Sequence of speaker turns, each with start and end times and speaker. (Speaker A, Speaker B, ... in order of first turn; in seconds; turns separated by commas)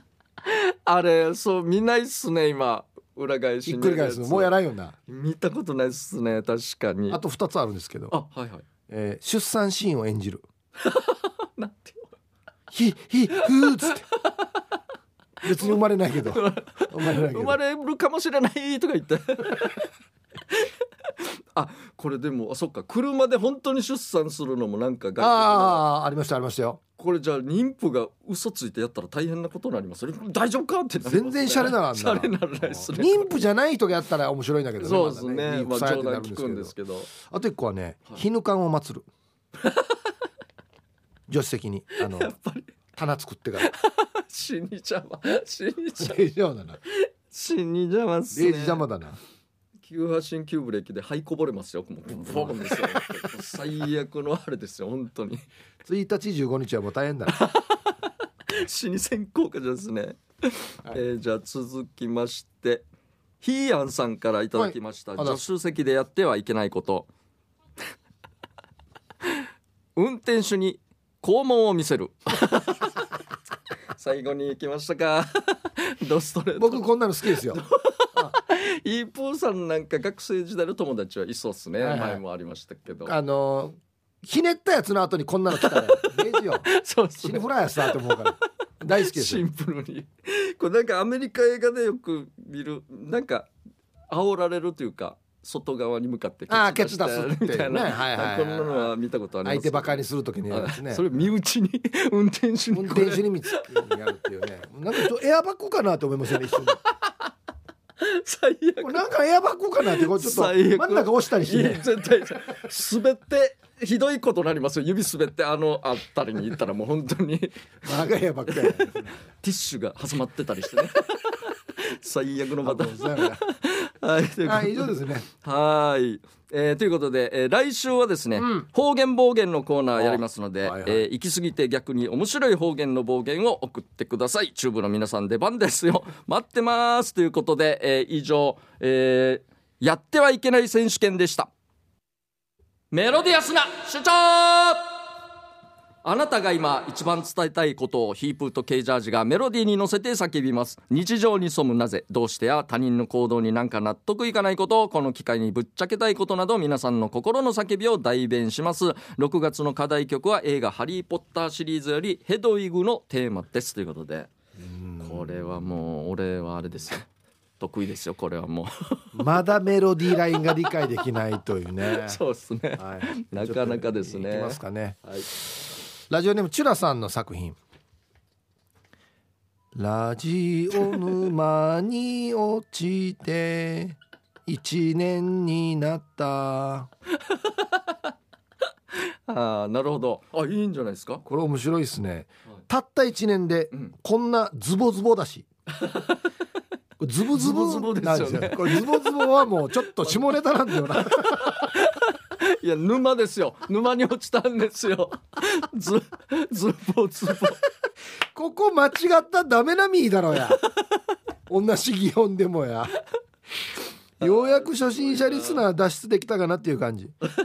Speaker A: 0.4-4.5, Speaker B: 3.6-5.0, Speaker A: 5.1-7.2, Speaker B: 7.1-8.1, Speaker A: 8.1-8.6, Speaker B: 8.9-10.4, Speaker A: 10.8-12.1, Speaker B: 12.7-14.0, Speaker A: 13.4-14.6, Speaker B: 15.4-17.6, Speaker A: 15.6-19.8, Speaker A: 20.5-25.8, Speaker B: 25.2-26.8, Speaker A: 27.0-33.3, Speaker B: 31.0-39.1, Speaker A: 34.8-37.1, Speaker A: 39.6-40.0, Speaker B: 41.3-42.3, Speaker A: 42.0-42.7, Speaker B: 42.9-43.7, Speaker A: 43.6-46.2, Speaker B: 46.0-46.8, Speaker A: 46.9-48.9, Speaker B: 48.3-49.2, Speaker A: 49.8-55.4, Speaker B: 52.2-53.3, Speaker B: 55.8-57.4, Speaker A: 57.3-62.8, Speaker A: 63.4-67.1, Speaker B: 64.5-65.4, Speaker A: 70.0-73.1, Speaker A: 73.9-83.1, Speaker B: 76.6-77.6, Speaker B: 81.8-82.2, Speaker B: 83.0-86.7, Speaker A: 85.6-88.4, Speaker B: 87.2-89.4, Speaker A: 88.9-93.5, Speaker A: 94.1-103.7, Speaker B: 96.5-98.9, Speaker B: 99.4-101.2, Speaker B: 102.7-106.8, Speaker A: 106.5-107.1, Speaker A: 108.0-109.0, Speaker B: 108.8-111.8, Speaker A: 109.8-117.9, Speaker B: 117.8-119.0, Speaker A: 118.5-141.5, Speaker B: 122.6-123.4, Speaker B: 124.4-125.2, Speaker B: 128.4-128.6, Speaker B: 130.0-131.0, Speaker A: 142.9-144.9, Speaker A: 146.0-164.3, Speaker B: 164.6-165.3, Speaker A: 165.0-167.1, Speaker A: 167.6-169.4, Speaker B: 169.1-172.2, Speaker A: 170.2-170.7, Speaker A: 171.8-175.3, Speaker B: 172.8-177.6, Speaker B: 179.7-186.9, Speaker A: 187.3-188.0, Speaker A: 188.9-191.2, Speaker B: 191.2-195.5, Speaker A: 195.7-196.3, Speaker B: 197.0-201.8, Speaker A: 197.3-199.2, Speaker A: 199.8-207.6, Speaker B: 208.3-210.6, Speaker B: 211.5-213.0, Speaker A: 214.2-215.6, Speaker B: 214.2-217.1